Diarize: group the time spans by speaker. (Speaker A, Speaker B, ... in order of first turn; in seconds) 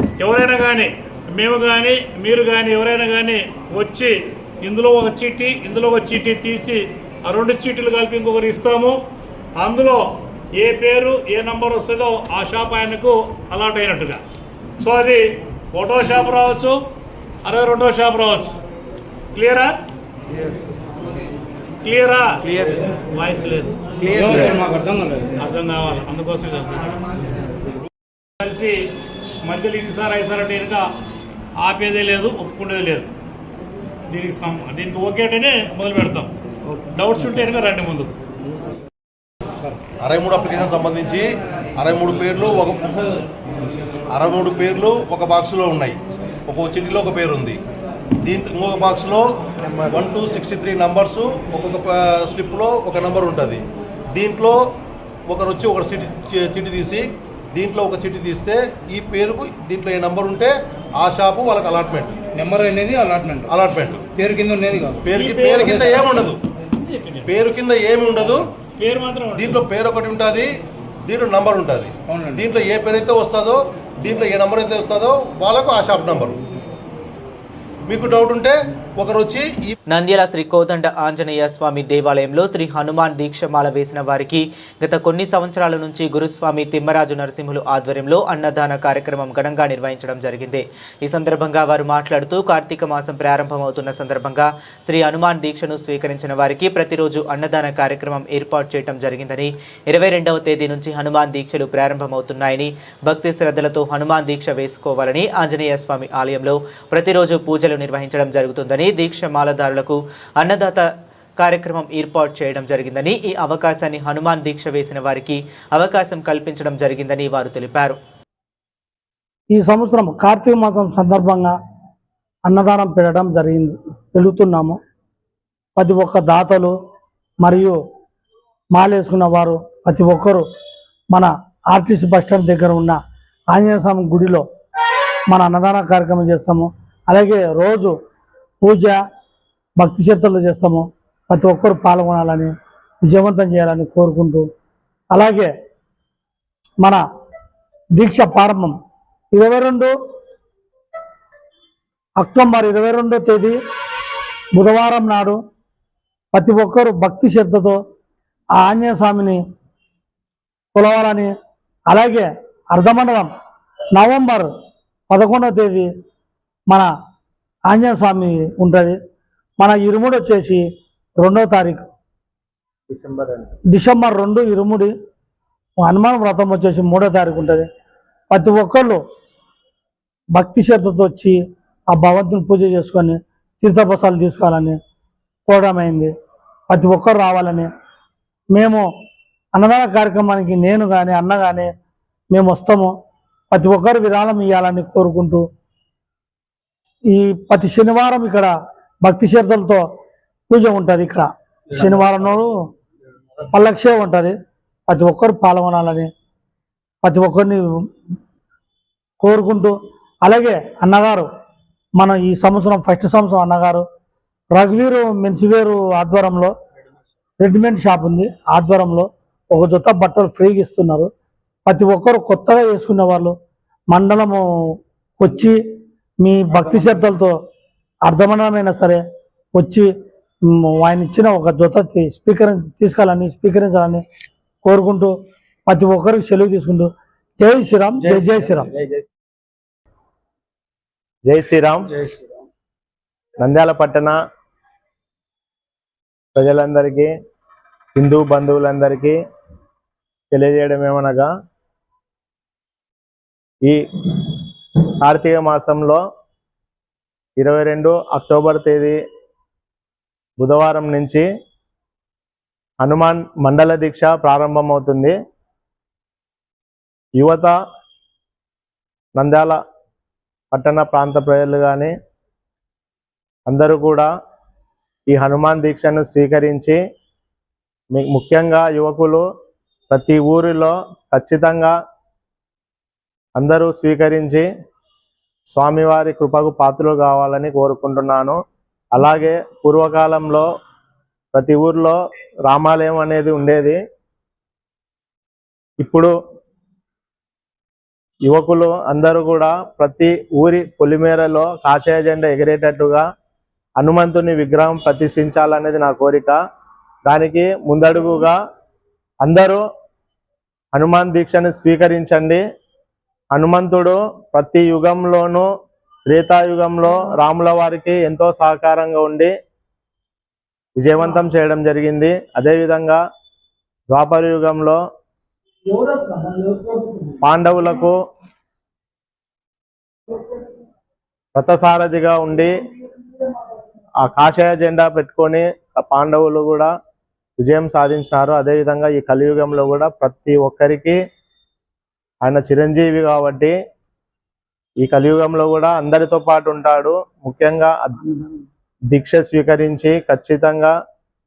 Speaker A: 0.2-9.0, 9.6-10.0, 10.6-14.2, 14.8-15.2, 15.7-16.8, 17.4-18.5, 19.3-19.7, 21.8-22.4, 23.1-24.6, 25.4-26.9, 28.4-28.9, 29.4-30.9, 31.6-33.1, 34.1-36.3, 36.9-38.1, 65.1-65.8, 66.8-67.3, 68.8-69.6
Speaker B: 24.0-25.3, 62.4-63.5, 64.2-65.0, 72.1-72.4
Speaker C: 40.0-42.9, 44.1-47.6, 48.2-49.3, 49.8-53.6, 54.1-54.6, 55.3-62.2, 63.5-64.1, 65.0-66.4, 67.3-68.5, 69.3-70.5, 71.0-76.4, 77.9-79.7
Speaker D: 79.9-118.0
Speaker E: 119.5-121.5, 122.5-124.8, 125.8-126.7, 127.4-127.8, 128.7-130.4, 131.1-133.0, 133.5-134.4, 135.3-137.9, 138.6-139.0, 139.8-142.5, 143.0-144.5, 145.1-145.5, 147.9-148.8, 149.3-149.9, 152.2-153.6, 154.5-155.4, 156.3-157.8, 158.6-159.4, 160.7-161.3, 161.9-163.3, 163.9-164.5, 165.1-165.9, 167.7-169.0, 169.6-170.6, 171.2-171.9, 173.7-174.9, 175.8-177.7, 178.3-179.0, 180.3-181.4, 181.9-184.8, 185.5-186.1, 186.7-187.7, 188.5-188.9, 189.6-191.7, 192.3-192.9, 193.5-195.4, 197.1-198.5, 199.0-199.8, 200.5-202.5, 203.5-204.3, 204.9-206.1, 207.0-207.6, 209.2-211.3, 212.0-213.8, 214.5-216.5, 217.4-221.1, 221.7-223.3, 223.9-224.4, 225.2-225.6, 226.2-227.3, 228.1-229.0, 229.6-229.9, 230.5-234.0, 234.6-235.1, 235.7-238.8, 325.7-327.1
Speaker F: 172.9-173.5, 241.2-242.0, 243.4-244.2, 246.3-247.1, 247.9-249.2, 250.3-251.3, 253.7-254.4, 255.0-256.0, 257.4-259.0, 260.4-261.2, 262.8-265.1, 267.2-267.5, 269.2-269.6, 270.5-271.9, 273.5-274.1, 275.1-276.8, 277.9-279.2, 279.9-281.7, 283.4-284.4, 285.5-288.4, 288.9-290.5, 291.3-292.0, 292.5-293.8, 295.8-296.1, 298.2-303.0, 303.8-306.4, 307.1-308.4, 309.2-309.6, 310.7-312.4, 313.3-315.5, 316.1-319.3, 320.8-323.0, 323.9-324.8, 327.2-328.0, 331.4-332.5, 334.0-336.7, 337.4-341.0, 342.2-343.5, 344.8-347.9, 348.9-350.7